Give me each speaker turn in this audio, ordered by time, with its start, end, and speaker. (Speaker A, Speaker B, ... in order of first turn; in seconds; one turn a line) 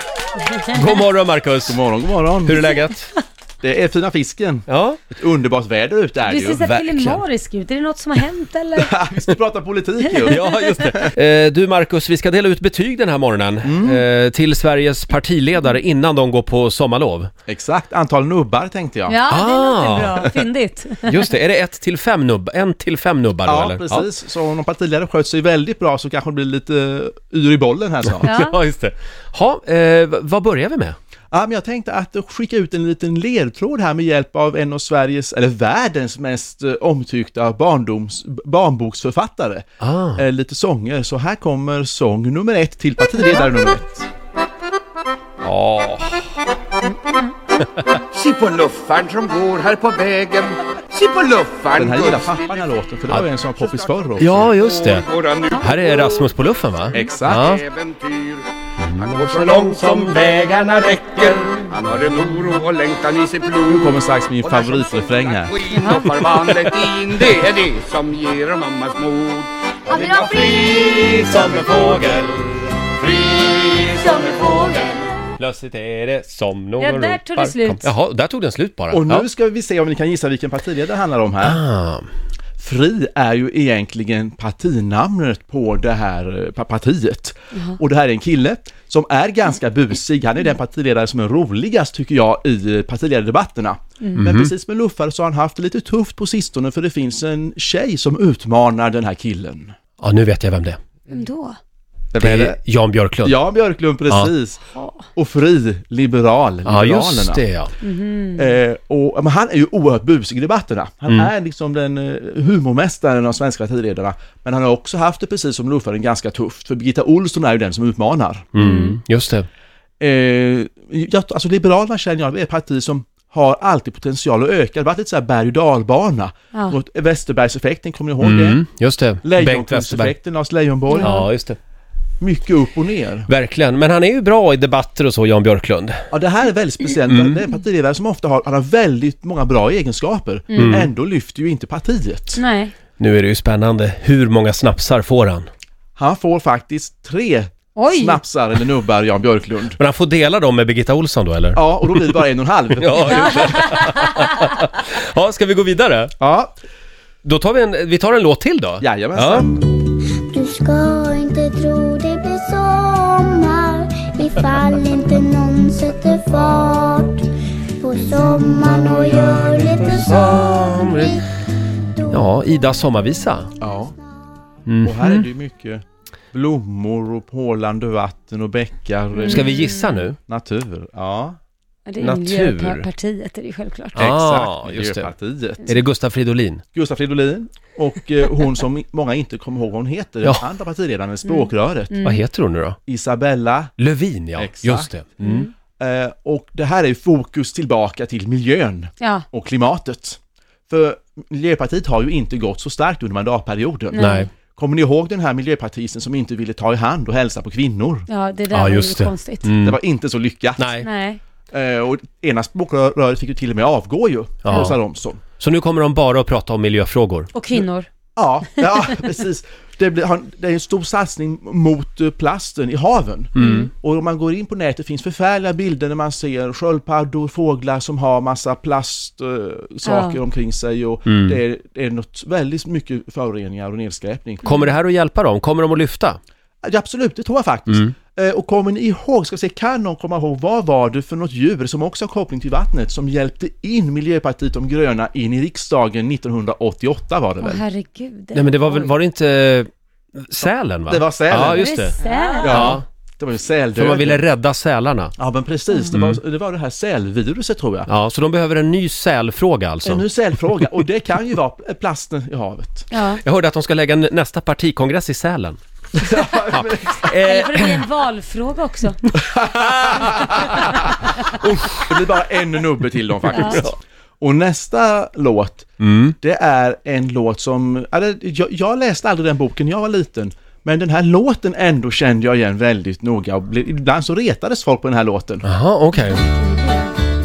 Speaker A: 0.7-1.8
Speaker B: 1.6-2.7
Speaker A: 2.5-3.1
Speaker B: 3.6-7.2
Speaker A: 4.7-5.0
Speaker C: 6.2-8.9
Speaker B: 8.8-11.1
Speaker A: 10.3-17.3
Speaker B: 13.6-14.0
Speaker B: 17.5-19.2
Speaker C: 19.1-21.3
Speaker A: 19.3-20.3
Speaker A: 21.0-24.1
Speaker B: 23.4-28.3
Speaker A: 28.2-31.0
Speaker C: 28.2-28.6
Speaker B: 31.3-44.1
Speaker A: 39.8-40.2
Speaker A: 45.4-46.2
Speaker C: 46.9-47.3
Speaker A: 47.6-48.0
Speaker D: 48.1-52.3
Speaker B: 51.7-54.5
Speaker A: 54.2-57.6
Speaker D: 54.6-56.0
Speaker B: 56.9-57.6
Speaker D: 57.0-58.5
Speaker A: 58.8-59.1
Speaker D: 59.0-63.9
Speaker B: 63.7-65.6
Speaker D: 64.4-72.2
Speaker C: 65.7-66.1
Speaker E: 70.1-71.3
Speaker A: 70.9-72.3
Speaker D: 73.0-74.5
Speaker E: 74.2-74.9
Speaker A: 75.4-79.2
Speaker C: 76.8-77.9
Speaker B: 78.9-81.6
Speaker A: 81.4-82.1
Speaker B: 82.6-99.7
Speaker A: 94.2-94.5
Speaker A: 100.0-100.8
Speaker C: 101.1-101.6
Speaker B: 102.1-102.6
Speaker A: 102.2-103.3
Speaker B: 103.2-104.6
Speaker C: 104.7-105.0
Speaker B: 105.2-107.4
Speaker A: 106.7-107.7
Speaker C: 107.8-108.5
Speaker B: 108.3-118.5
Speaker A: 118.5-119.5
Speaker C: 118.6-119.0
Speaker B: 120.0-128.6
Speaker A: 128.2-130.1
Speaker B: 129.2-131.2
Speaker C: 130.9-131.3
Speaker A: 131.0-131.6
Speaker B: 132.2-133.3
Speaker A: 133.3-136.0
Speaker B: 136.1-142.4
Speaker A: 137.1-137.4
Speaker C: 140.5-140.8
Speaker A: 140.6-140.9
Speaker C: 142.3-142.7
Speaker A: 143.0-145.5
Speaker B: 146.0-149.8
Speaker C: 147.8-148.2
Speaker A: 149.8-152.2
Speaker B: 151.5-153.5
Speaker A: 152.8-156.1
Speaker C: 153.1-154.2
Speaker B: 156.2-156.5
Speaker A: 157.2-159.5
Speaker B: 158.8-159.7
Speaker E: 160.0-167.3
Speaker E: 167.8-171.2
Speaker A: 168.5-171.2
Speaker A: 172.1-173.5
Speaker B: 173.6-173.9
Speaker A: 174.7-175.2
Speaker B: 174.8-179.7
Speaker C: 179.1-180.1
Speaker A: 179.3-180.2
Speaker B: 180.3-181.4
Speaker C: 181.8-184.1
Speaker A: 182.0-182.9
Speaker A: 183.9-185.1
Speaker B: 184.0-185.8
Speaker A: 185.7-186.6
Speaker B: 186.7-191.9
Speaker C: 191.2-192.2
Speaker A: 192.0-192.8
Speaker B: 192.9-193.7
Speaker A: 193.8-195.5
Speaker B: 194.3-194.9
Speaker C: 195.2-195.5
Speaker B: 195.8-208.1
Speaker C: 203.9-204.3
Speaker A: 204.0-204.3
Speaker C: 208.1-209.5
Speaker A: 208.5-209.8
Speaker B: 209.6-210.7
Speaker A: 210.6-210.9
Speaker C: 210.8-211.2
Speaker B: 211.5-215.2
Speaker A: 214.4-214.7
Speaker A: 215.4-217.3
Speaker C: 217.3-217.9
Speaker B: 218.2-234.4
Speaker A: 223.3-223.7
Speaker C: 223.4-223.7
Speaker C: 229.8-230.2
Speaker A: 231.1-231.4
Speaker A: 234.4-236.2
Speaker B: 236.6-247.6
Speaker C: 247.4-248.9
Speaker A: 248.3-252.8
Speaker B: 250.9-251.7
Speaker C: 251.4-252.8
Speaker B: 252.4-254.2
Speaker A: 253.8-255.1
Speaker B: 255.2-257.9
Speaker A: 255.9-256.2
Speaker A: 257.9-260.0
Speaker B: 259.8-262.9
Speaker C: 262.9-263.2
Speaker A: 263.2-265.6
Speaker B: 265.9-267.1
Speaker A: 266.1-267.8
Speaker C: 267.2-269.0
Speaker B: 269.2-275.7
Speaker A: 269.6-270.8
Speaker C: 273.3-273.6
Speaker A: 273.3-273.7
Speaker A: 275.8-276.1
Speaker B: 276.2-285.4
Speaker A: 285.4-286.2
Speaker C: 285.9-286.9